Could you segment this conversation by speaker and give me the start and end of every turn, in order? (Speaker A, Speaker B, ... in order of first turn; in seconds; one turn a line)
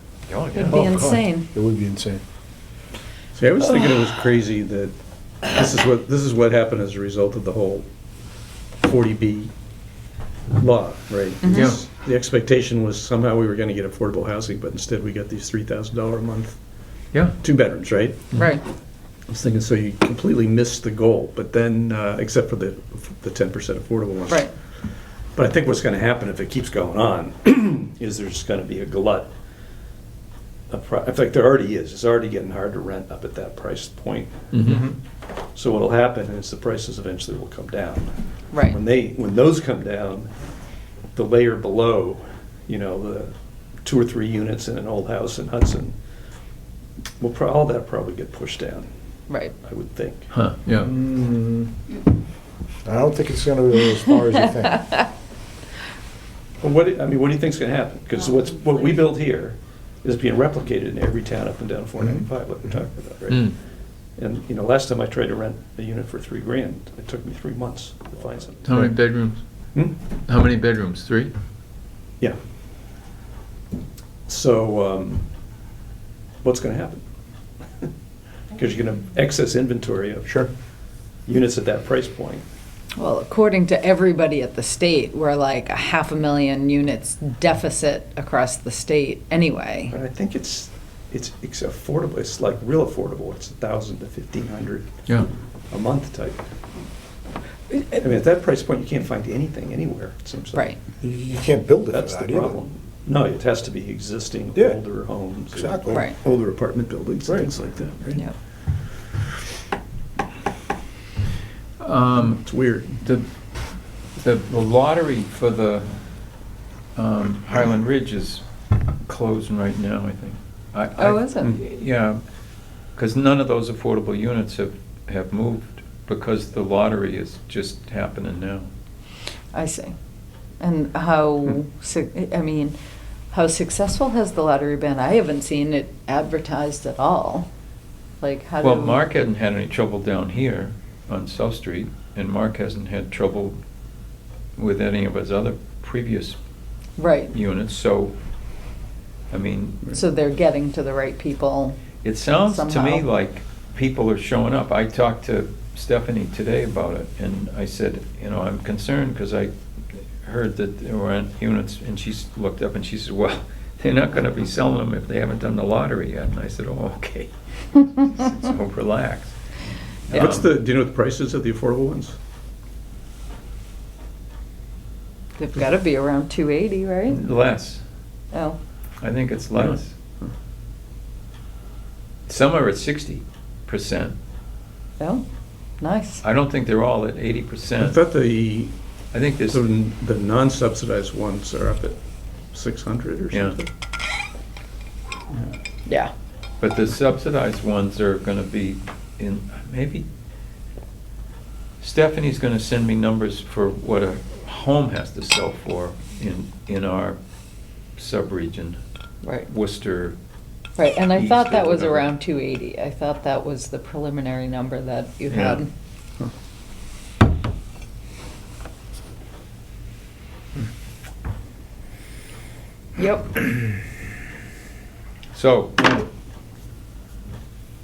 Speaker A: 0.3-1.0
Speaker B: 0.5-1.5
Speaker C: 0.7-2.2
Speaker D: 3.3-7.9
Speaker D: 8.8-9.5
Speaker D: 10.6-16.6
Speaker B: 11.4-11.8
Speaker A: 11.5-11.8
Speaker D: 17.4-18.5
Speaker B: 18.3-18.6
Speaker D: 19.3-24.5
Speaker D: 25.4-29.3
Speaker D: 30.7-34.9
Speaker A: 34.5-34.9
Speaker D: 35.5-40.3
Speaker D: 41.1-45.9
Speaker D: 47.2-48.9
Speaker B: 49.3-49.5
Speaker D: 49.6-50.3
Speaker A: 50.3-50.9
Speaker C: 50.8-51.7
Speaker C: 52.9-55.0
Speaker D: 56.6-63.5
Speaker A: 63.3-63.6
Speaker D: 64.2-68.8
Speaker A: 68.6-69.4
Speaker A: 70.2-71.3
Speaker D: 74.3-75.3
Speaker D: 76.4-77.0
Speaker D: 78.5-80.4
Speaker D: 81.3-82.4
Speaker B: 83.0-90.0
Speaker D: 89.9-94.9
Speaker D: 95.7-96.4
Speaker D: 97.7-100.7
Speaker C: 101.0-102.6
Speaker D: 101.9-108.2
Speaker C: 105.5-106.1
Speaker B: 105.9-106.2
Speaker C: 107.2-108.2
Speaker A: 111.8-112.4
Speaker D: 112.3-113.0
Speaker A: 113.0-113.3
Speaker A: 114.2-115.9
Speaker A: 117.0-118.5
Speaker A: 119.0-122.2
Speaker B: 121.0-121.5
Speaker A: 123.0-128.7
Speaker B: 129.5-129.9
Speaker B: 130.6-132.8
Speaker B: 133.3-137.5
Speaker B: 138.2-139.0
Speaker A: 138.6-143.6
Speaker A: 144.6-146.4
Speaker B: 147.0-147.3
Speaker A: 147.3-148.1
Speaker A: 149.3-150.0
Speaker B: 149.9-151.8
Speaker A: 152.0-169.4
Speaker B: 152.5-153.1
Speaker A: 170.1-170.4
Speaker D: 170.1-172.2
Speaker B: 175.4-177.2
Speaker A: 177.1-177.8
Speaker B: 178.3-178.6
Speaker A: 179.0-179.9
Speaker D: 179.6-180.3
Speaker A: 182.3-184.2
Speaker B: 185.0-185.2
Speaker B: 185.8-186.2
Speaker A: 186.2-188.0
Speaker D: 187.8-188.7
Speaker A: 189.1-189.6
Speaker D: 189.5-192.0
Speaker D: 192.5-193.7
Speaker A: 193.3-193.6
Speaker A: 196.6-200.1
Speaker A: 201.8-207.2
Speaker A: 208.0-208.8
Speaker B: 209.2-209.5
Speaker A: 209.5-210.2
Speaker B: 210.8-215.7
Speaker A: 211.2-212.1
Speaker A: 215.3-215.6
Speaker B: 223.0-223.5
Speaker A: 225.3-226.1